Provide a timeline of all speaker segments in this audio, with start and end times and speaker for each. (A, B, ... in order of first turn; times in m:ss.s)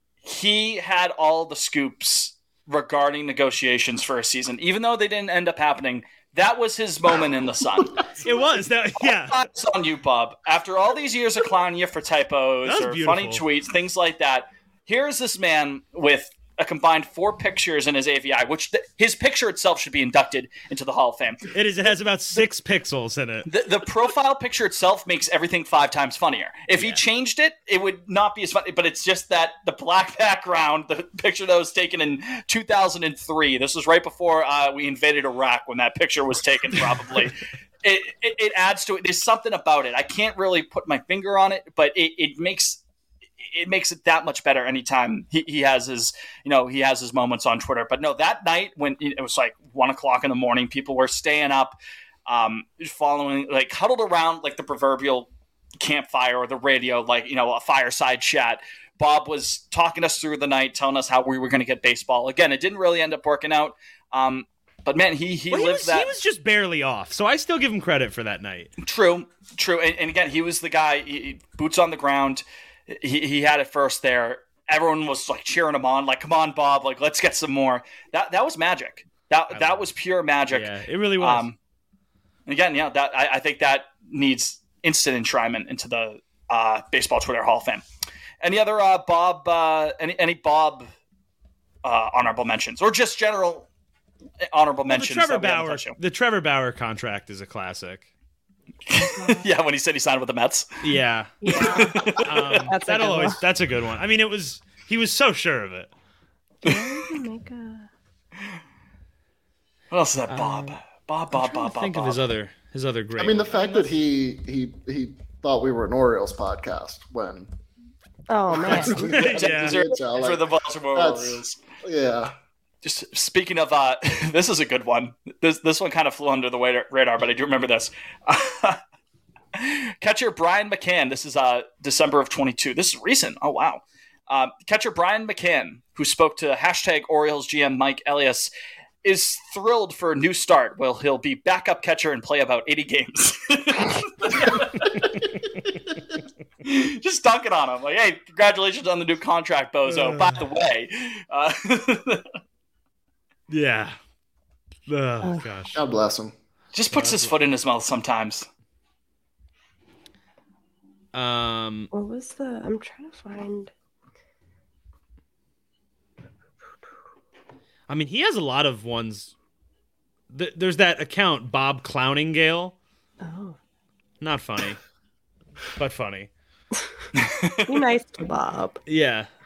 0:00.2-0:08.1 A
0:08.2-0:09.4 B
0:09.3-0:21.5 A
0:12.6-0:13.4 B
0:21.5-0:23.5 B
0:23.5-0:42.8 A
0:43.4-0:55.3 A
0:55.8-1:06.1 A
1:05.5-1:08.7 B
1:08.8-1:21.6 A
1:19.5-1:19.8 B
1:20.5-1:21.5 B
1:22.5-1:27.8 A
1:28.4-1:30.9 A
1:31.8-1:33.7 A
1:34.5-1:36.0 A
1:34.9-1:38.1 B
1:38.9-1:40.7 A
1:39.0-1:39.4 C
1:40.8-1:45.9 B
1:41.4-1:42.1 C
1:41.5-1:42.7 A
1:42.6-1:43.4 C
1:46.6-1:47.9 C
1:49.9-1:52.2 A
1:50.3-1:50.8 B
1:51.3-1:53.9 B
1:53.2-1:57.5 D
1:58.3-1:59.1 C
1:58.5-2:02.4 D
1:58.7-1:59.8 B
1:59.1-2:01.6 A
2:02.8-2:08.8 A
2:09.6-2:18.5 A
2:19.0-2:25.1 A
2:26.6-2:32.2 A
2:29.9-2:30.4 B
2:33.5-2:34.0 B
2:34.9-2:35.8 B
2:35.2-2:35.5 C
2:35.7-2:36.3 D
2:36.7-2:38.5 A
2:36.9-2:37.3 B
2:41.1-2:41.9 B
2:41.9-2:43.7 C
2:47.9-2:49.3 B
2:50.3-2:52.8 B
2:53.2-2:53.6 C
2:54.2-2:54.8 B
2:55.8-2:56.3 B
2:57.2-2:57.9 A
2:57.7-2:58.8 C
2:58.9-2:59.3 B